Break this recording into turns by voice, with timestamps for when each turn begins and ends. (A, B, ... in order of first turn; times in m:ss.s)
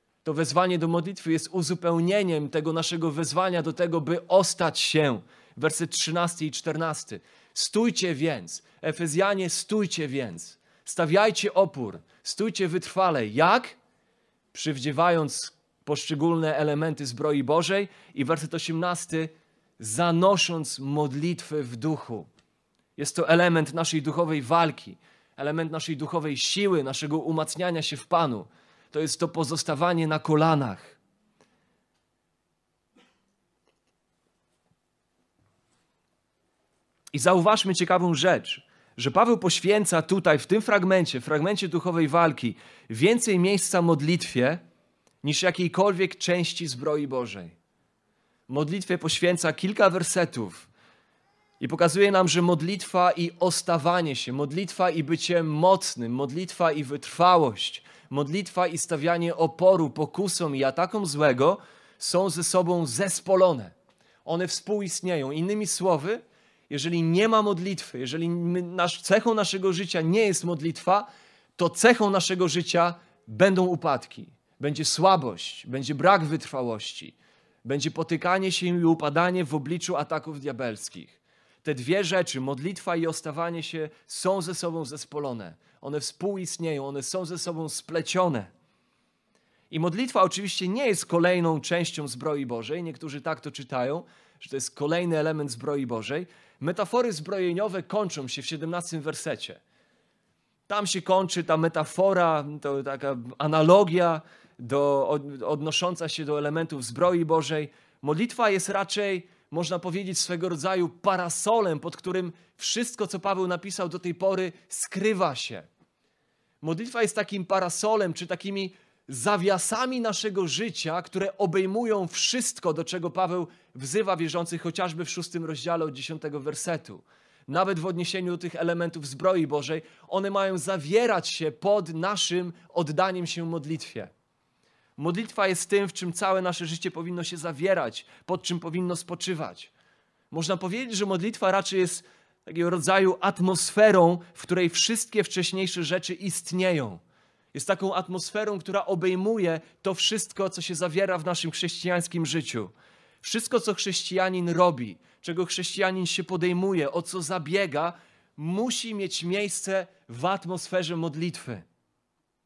0:00.2-0:13.8 A
0:14.5-0:22.3 A
0:23.0-0:31.0 A
0:37.1-0:44.6 A
0:45.2-0:47.6 A
0:48.5-0:50.7 A
0:51.6-1:28.5 A
1:29.7-1:39.6 A
1:40.7-1:55.7 A
1:56.6-2:14.1 A
2:15.0-2:19.7 A
2:20.3-2:27.0 A
2:27.5-2:41.6 A